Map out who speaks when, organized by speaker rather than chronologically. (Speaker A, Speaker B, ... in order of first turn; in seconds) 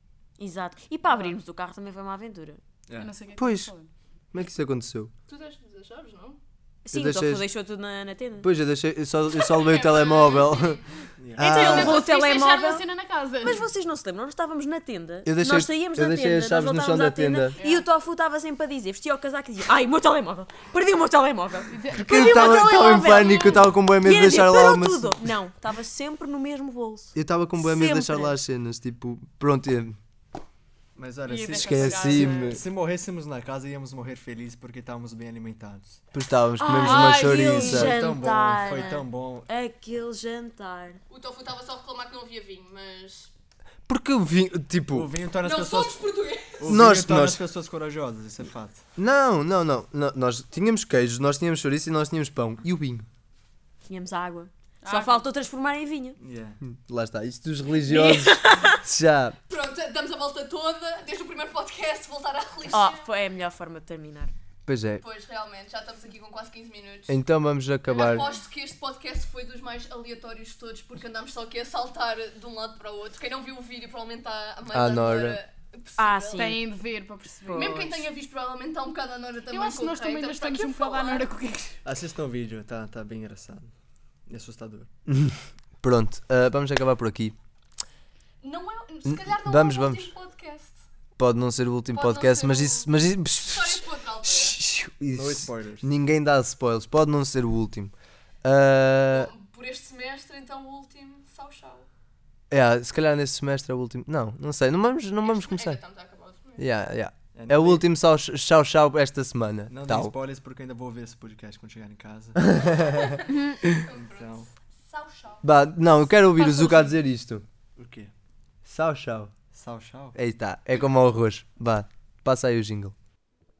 Speaker A: 0.4-2.6, 6.8-8.5, 11.4-12.9, 13.4-28.4, 36.6-41.0, 53.9-56.2, 57.9-58.7, 62.7-64.3, 76.0-76.6, 77.5-77.9
Speaker B: 2.9-3.1, 11.2-11.6, 31.0-36.0, 37.4-39.5, 44.9-48.8, 56.2-56.6, 81.8-83.7, 84.3-84.9, 95.1-95.9, 107.3-107.8, 109.7-113.0, 113.9-114.5, 117.8-118.1, 119.5-120.2
Speaker C: 3.0-3.9, 11.5-13.7, 17.5-17.9, 21.7-23.2, 31.2-32.6, 36.8-37.5, 54.8-55.2, 76.3-78.0, 79.5-81.8
Speaker D: 3.4-3.7, 4.3-5.1, 6.9-7.5, 8.4-10.8, 11.3-12.0, 15.2-17.6, 21.9-25.2, 27.1-29.9, 31.6-32.6, 36.1-38.0, 43.9-45.1, 46.7-47.4, 49.0-53.0, 56.6-59.4, 64.7-65.0, 67.1-68.3, 74.7-75.4, 85.1-87.3, 89.0-90.1, 91.2-97.9, 98.4-99.3, 102.5-105.8, 106.6-110.1, 112.5-113.0, 115.4-117.4, 118.6-119.3, 120.1-122.9
Speaker E: 5.3-6.4, 9.3-10.8, 41.1-43.3, 45.4-46.7, 59.5-63.1, 65.0-67.2, 67.9-76.6, 77.5-81.3, 88.4-90.8, 91.9-94.6, 99.1-101.9, 105.2-106.6, 113.0-115.4